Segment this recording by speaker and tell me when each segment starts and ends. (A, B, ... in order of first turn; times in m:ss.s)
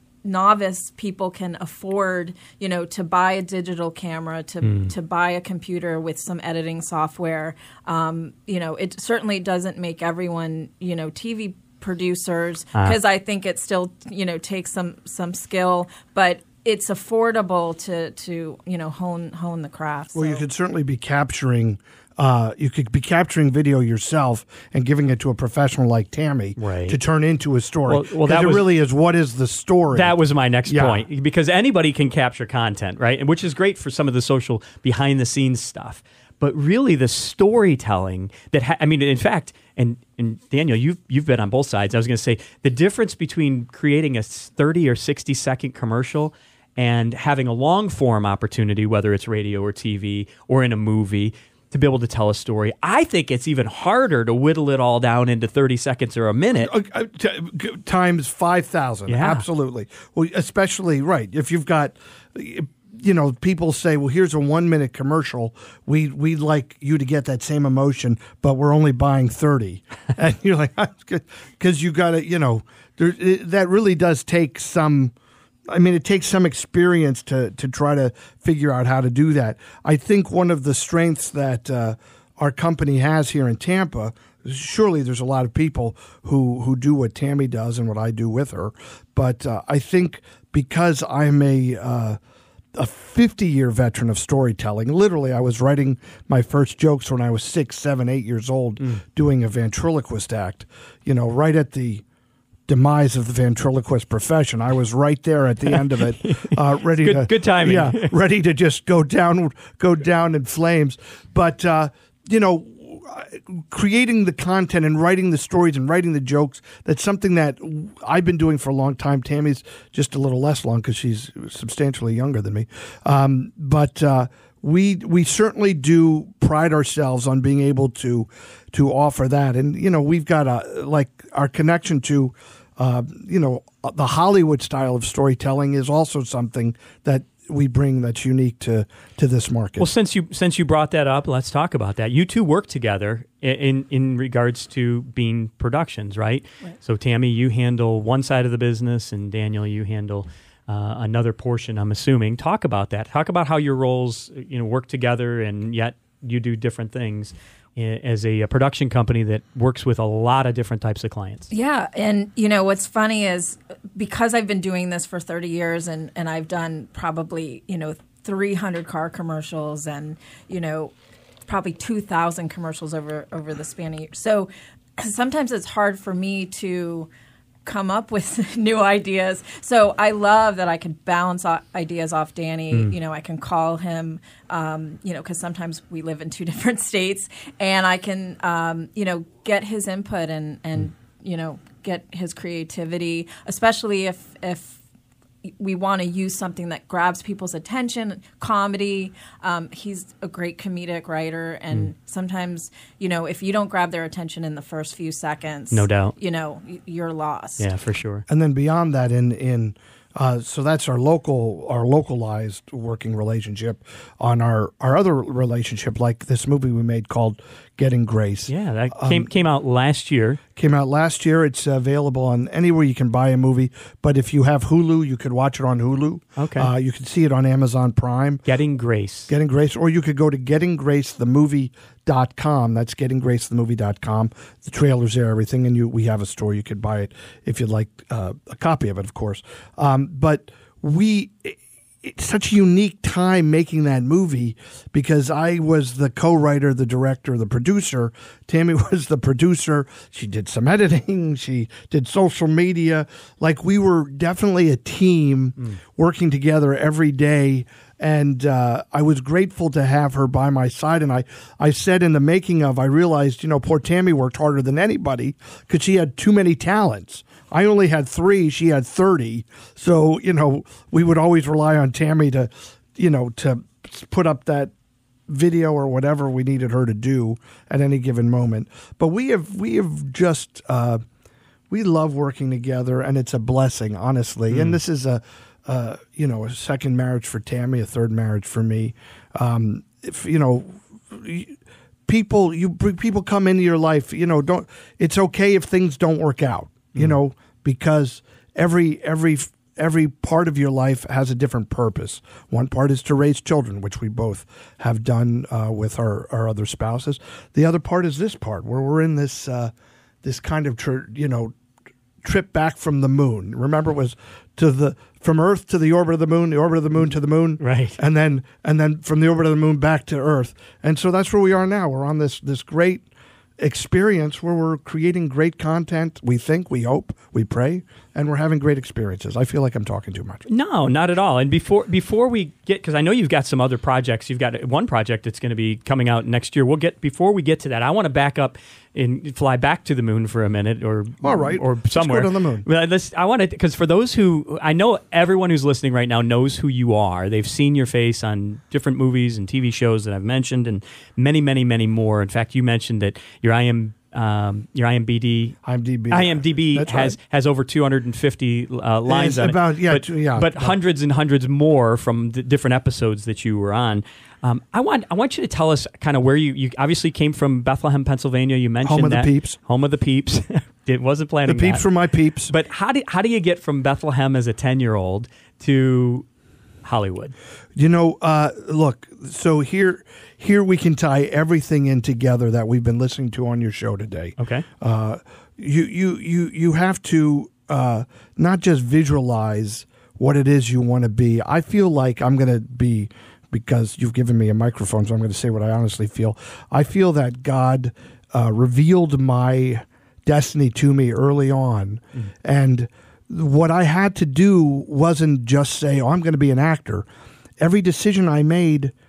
0:00.2-0:20.4 A
0:04.6-0:04.9 B
0:20.2-0:31.0 C
0:26.6-0:27.0 B
0:27.9-0:28.7 B
0:29.9-0:56.7 B
0:56.6-1:15.1 C
0:59.1-0:59.4 B
1:15.7-1:32.2 C
1:32.7-1:42.0 C
1:42.7-2:19.9 C
1:45.7-1:48.1 B
2:19.8-2:41.5 B
2:41.5-2:50.9 A
2:51.5-2:57.1 A
2:57.6-3:14.8 A
3:15.5-3:27.7 A
3:25.7-3:26.2 B
3:27.6-3:28.2 B
3:28.3-3:39.3 C
3:38.5-3:40.4 B
3:40.6-3:48.4 C
3:46.4-3:46.7 B
3:48.5-3:49.3 B
3:49.3-4:34.7 C
4:35.3-4:41.0 C
4:41.7-4:51.6 C
4:44.5-4:44.8 B
4:52.1-5:09.7 C
5:10.2-5:11.6 C
5:12.2-5:23.0 C
5:17.6-5:18.0 B
5:23.6-5:30.4 C
5:30.5-5:55.6 B
5:41.2-5:42.7 C
5:55.6-5:57.2 C
5:56.1-6:11.9 B
5:59.1-6:00.8 C
6:08.8-6:09.6 C
6:11.5-6:12.5 C
6:12.5-6:16.3 B
6:16.8-6:17.4 B
6:17.8-6:47.1 C
6:24.4-6:24.7 B
6:47.6-6:48.9 C